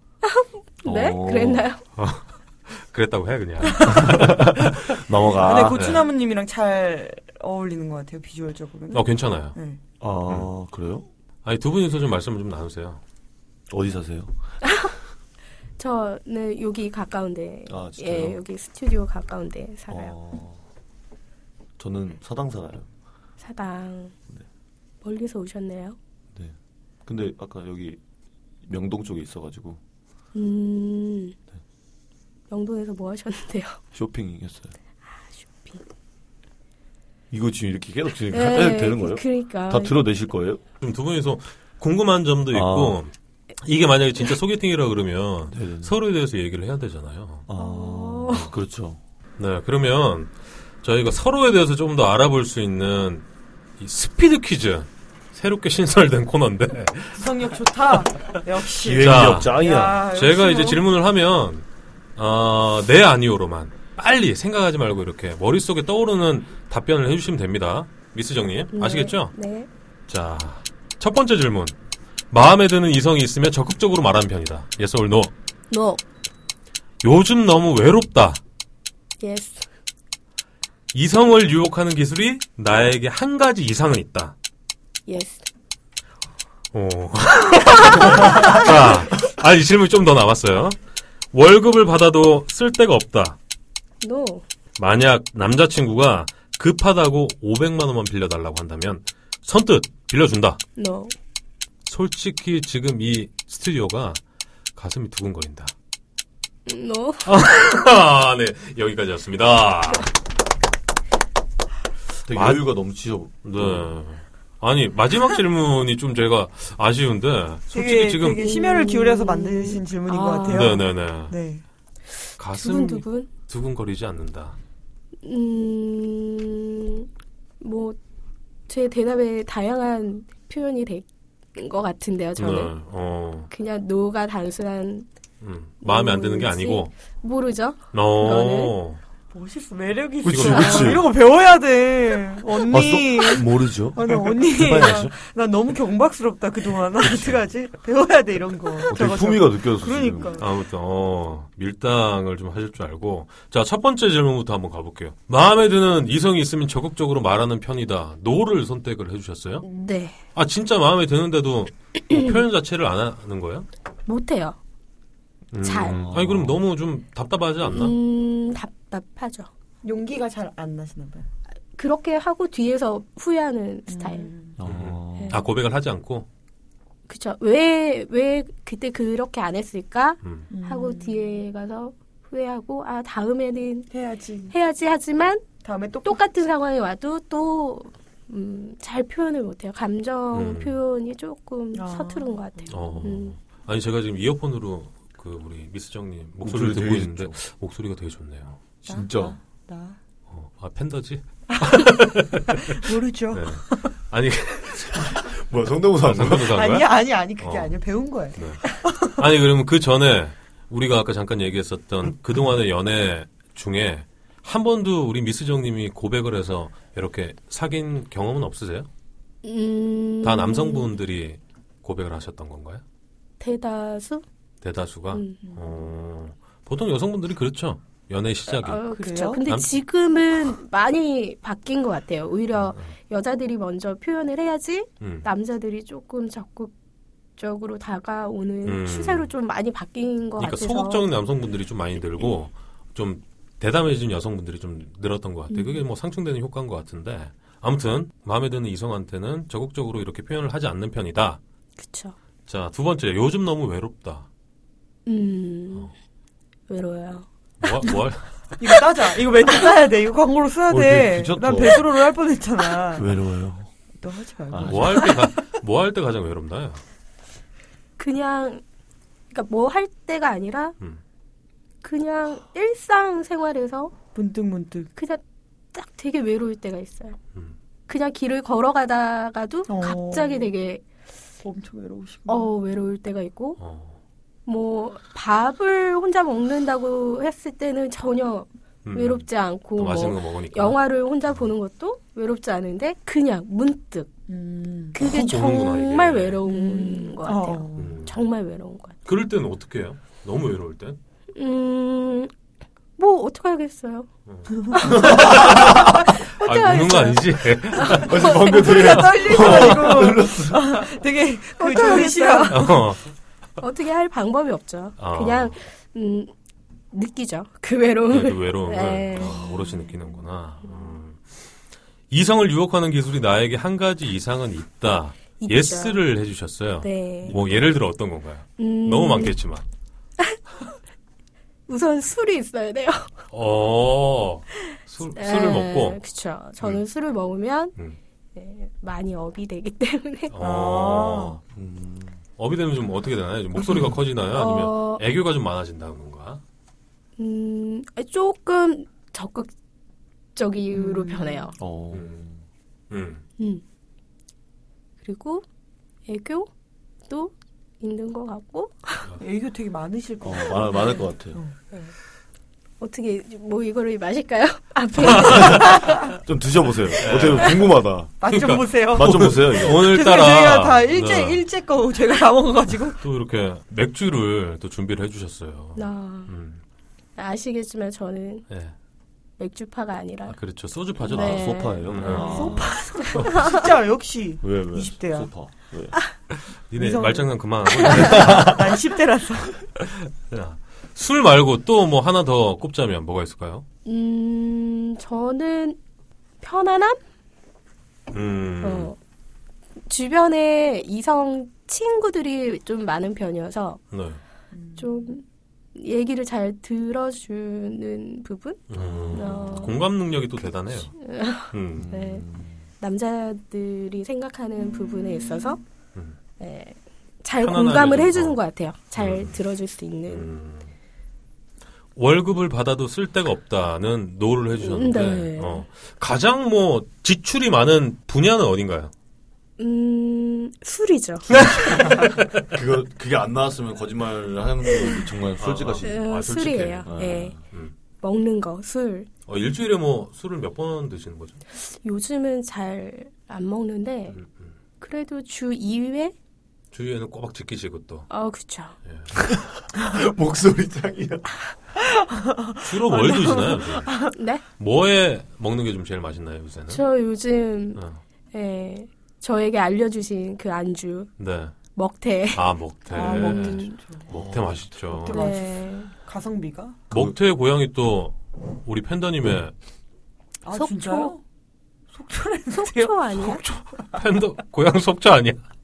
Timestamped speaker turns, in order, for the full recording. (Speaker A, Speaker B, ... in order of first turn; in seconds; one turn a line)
Speaker A: 0.2-1.8
Speaker B: 0.8-1.7
Speaker C: 1.9-4.5
Speaker B: 3.9-6.0
Speaker D: 5.3-9.8
Speaker C: 5.7-6.0
Speaker C: 8.9-9.5
Speaker B: 10.0-11.0
Speaker C: 11.4-13.0
Speaker B: 13.7-14.3
Speaker A: 15.8-20.1
Speaker B: 17.7-18.4
Speaker B: 19.9-20.6
Speaker B: 21.8-22.9
Speaker A: 23.4-24.1
Speaker A: 25.0-26.0
Speaker B: 26.3-28.0
Speaker B: 28.6-29.8
Speaker A: 30.3-31.4
Speaker A: 32.5-33.8
Speaker B: 33.9-34.7
Speaker A: 35.4-35.8
Speaker B: 37.3-40.6
Speaker A: 38.3-39.9
Speaker C: 40.8-47.5
Speaker B: 42.5-43.0
Speaker B: 45.5-45.9
Speaker B: 47.5-49.0
Speaker A: 47.5-48.5
Speaker C: 49.4-53.2
Speaker C: 53.8-57.3
Speaker D: 57.1-60.8
Speaker B: 58.8-60.0
Speaker C: 59.0-59.6
Speaker C: 60.1-61.6
Speaker C: 62.1-69.3
Speaker A: 68.7-69.7
Speaker C: 70.1-71.8
Speaker C: 72.3-75.3
Speaker A: 75.7-76.0
Speaker C: 77.0-78.4
Speaker A: 79.2-79.6
Speaker C: 80.9-84.3
Speaker A: 85.1-85.4
Speaker C: 86.7-90.8
Speaker A: 88.2-88.5
Speaker C: 91.3-93.4
Speaker A: 94.0-94.4
Speaker C: 94.8-100.6
Speaker A: 100.8-101.1
Speaker C: 101.8-104.2
Speaker C: 104.8-105.7
Speaker A: 106.7-107.3
Speaker C: 107.2-110.1
Speaker B: 112.2-113.9
Speaker C: 112.3-112.7
Speaker C: 113.4-118.5
Speaker D: 117.7-121.6
Speaker A: 118.3-120.8
Speaker C: 120.5-121.3
Speaker A: 122.2-123.3
Speaker C: 122.4-124.6
Speaker A: 125.2-127.1
Speaker A: 127.6-128.0
Speaker A: 128.7-132.7
Speaker C: 132.3-133.5
Speaker A: 133.5-135.1
Speaker C: 135.4-136.9
Speaker A: 135.8-138.7
Speaker C: 137.9-139.0
Speaker D: 139.3-150.5
Speaker B: 140.2-141.0
Speaker C: 140.2-141.0
Speaker B: 142.7-145.1
Speaker B: 147.1-147.3
Speaker B: 148.9-150.4
Speaker C: 150.4-159.6
Speaker A: 159.6-160.2
Speaker C: 160.3-163.7
Speaker A: 164.1-164.6
Speaker C: 165.5-167.9
Speaker A: 165.6-166.0
Speaker B: 165.8-166.6
Speaker A: 167.7-169.5
Speaker D: 169.8-171.3
Speaker A: 171.7-174.3
Speaker D: 173.9-174.6
Speaker B: 174.6-175.3
Speaker C: 174.6-176.3
Speaker A: 177.1-183.9
Speaker C: 180.2-180.5
Speaker D: 180.5-181.4
Speaker D: 183.9-184.6
Speaker A: 184.5-185.4
Speaker D: 185.6-186.2
Speaker A: 186.0-193.3
Speaker C: 190.3-190.8
Speaker D: 191.7-192.7
Speaker C: 192.7-198.6
Speaker B: 196.4-197.4
Speaker D: 198.8-200.0
Speaker B: 198.8-199.3
Speaker C: 200.3-205.2
Speaker D: 202.6-203.9
Speaker B: 204.9-206.6
Speaker C: 206.0-207.7
Speaker D: 206.4-208.9
Speaker C: 208.3-218.9
Speaker A: 219.4-220.9
Speaker C: 220.2-222.8
Speaker A: 223.4-224.2
Speaker C: 224.6-228.8
Speaker A: 225.1-225.4
Speaker D: 225.4-225.8
Speaker A: 228.5-236.7
Speaker D: 228.9-229.4
Speaker C: 229.4-229.8
Speaker C: 232.5-232.9
Speaker C: 235.0-235.3
Speaker A: 237.4-241.1
Speaker C: 238.6-239.3
Speaker C: 240.4-251.4
Speaker A: 245.5-245.8
Speaker A: 251.8-252.2
Speaker C: 252.5-254.3
Speaker A: 255.1-255.9
Speaker A: 256.7-257.3
Speaker C: 257.6-258.4
Speaker D: 258.6-263.1
Speaker B: 260.7-261.9
Speaker B: 262.9-263.7
Speaker D: 264.0-265.4
Speaker B: 264.5-265.1
Speaker C: 264.6-266.8
Speaker A: 268.0-268.6
Speaker A: 269.3-270.8
Speaker A: 271.8-273.9
Speaker D: 274.1-274.9
Speaker A: 274.9-275.2
Speaker A: 275.7-277.2
Speaker A: 277.9-280.8
Speaker D: 279.7-280.5
Speaker D: 281.4-282.5
Speaker A: 282.3-283.6
Speaker C: 283.6-283.9
Speaker A: 284.4-294.1
Speaker C: 288.8-290.8
Speaker D: 294.3-294.9
Speaker A: 294.9-299.0
Speaker C: 294.9-296.4
Speaker D: 296.4-297.9
Speaker C: 297.8-298.2
Speaker C: 299.0-301.0
Speaker A: 301.4-302.3
Speaker A: 303.0-304.1
Speaker C: 304.3-309.6
Speaker A: 304.7-309.0
Speaker B: 304.8-305.9
Speaker B: 307.9-310.8
Speaker D: 308.3-312.8
Speaker A: 311.6-312.8
Speaker C: 312.5-313.1
Speaker A: 313.6-316.3
Speaker C: 315.0-315.6
Speaker A: 316.9-319.8
Speaker C: 318.1-321.3
Speaker C: 322.1-329.6
Speaker A: 325.4-326.0
Speaker A: 326.8-327.4
Speaker A: 328.6-329.4
Speaker A: 331.7-333.1
Speaker C: 333.3-336.0
Speaker A: 335.1-337.8
Speaker A: 338.3-340.3
Speaker C: 340.3-341.4
Speaker D: 340.4-341.4
Speaker B: 341.5-342.2
Speaker C: 342.4-346.4
Speaker A: 344.3-345.0
Speaker A: 347.2-349.5
Speaker A: 350.4-351.5
Speaker D: 350.7-351.5
Speaker B: 351.6-352.4
Speaker C: 352.9-353.2
Speaker A: 355.0-355.4
Speaker A: 356.1-356.5
Speaker A: 357.1-359.1
Speaker D: 359.2-361.5
Speaker B: 360.2-361.4
Speaker A: 362.8-366.0
Speaker C: 365.0-365.6
Speaker B: 365.3-368.1
Speaker D: 365.5-365.9
Speaker C: 367.0-367.6
Speaker D: 368.2-373.0
Speaker C: 368.2-371.4
Speaker B: 368.9-370.0
Speaker C: 373.0-376.6
Speaker A: 375.8-376.3
Speaker A: 377.1-378.5
Speaker A: 379.4-380.4
Speaker C: 380.3-382.7
Speaker A: 381.0-383.6
Speaker B: 381.1-383.3
Speaker D: 382.0-385.3
Speaker B: 384.4-386.0
Speaker C: 386.3-388.6
Speaker D: 386.7-389.5
Speaker B: 388.0-388.6
Speaker C: 389.8-393.6
Speaker A: 393.8-395.8
Speaker A: 396.4-397.0
Speaker C: 398.1-398.9
Speaker A: 398.6-398.9
Speaker A: 399.9-403.8
Speaker C: 403.9-404.2
Speaker D: 404.5-405.1
Speaker A: 404.8-405.2
Speaker A: 405.7-409.8
Speaker C: 408.7-410.9
Speaker B: 408.8-409.5
Speaker A: 411.0-412.3
Speaker C: 411.5-411.9
Speaker B: 411.7-412.6
Speaker A: 412.8-415.6
Speaker A: 416.4-420.3
Speaker C: 417.4-418.4
Speaker C: 418.9-419.4
Speaker C: 420.1-420.7
Speaker C: 421.9-428.9
Speaker A: 424.6-425.6
Speaker A: 429.6-431.3
Speaker C: 431.3-432.4
Speaker B: 431.4-436.1
Speaker C: 435.4-436.9
Speaker A: 435.8-437.4
Speaker B: 436.9-437.4
Speaker C: 437.4-437.7
Speaker A: 438.0-439.1
Speaker C: 439.3-441.4
Speaker A: 441.7-444.2
Speaker C: 444.1-444.5
Speaker A: 444.8-446.1
Speaker C: 446.7-448.1
Speaker A: 448.1-448.8
Speaker C: 448.9-449.1
Speaker B: 449.1-451.3
Speaker D: 452.1-454.1
Speaker C: 452.6-454.0
Speaker A: 454.1-454.4
Speaker C: 454.6-456.8
Speaker A: 456.7-457.8
Speaker C: 457.7-458.0
Speaker A: 458.3-461.1
Speaker C: 461.2-461.5
Speaker A: 461.7-463.7
Speaker C: 462.3-465.3
Speaker D: 462.9-464.1
Speaker B: 464.1-464.7
Speaker D: 464.9-466.8
Speaker A: 465.1-465.9
Speaker C: 466.9-469.5
Speaker D: 470.4-471.2
Speaker A: 470.5-471.1
Speaker D: 471.9-473.0
Speaker A: 472.5-473.4
Speaker C: 473.1-475.4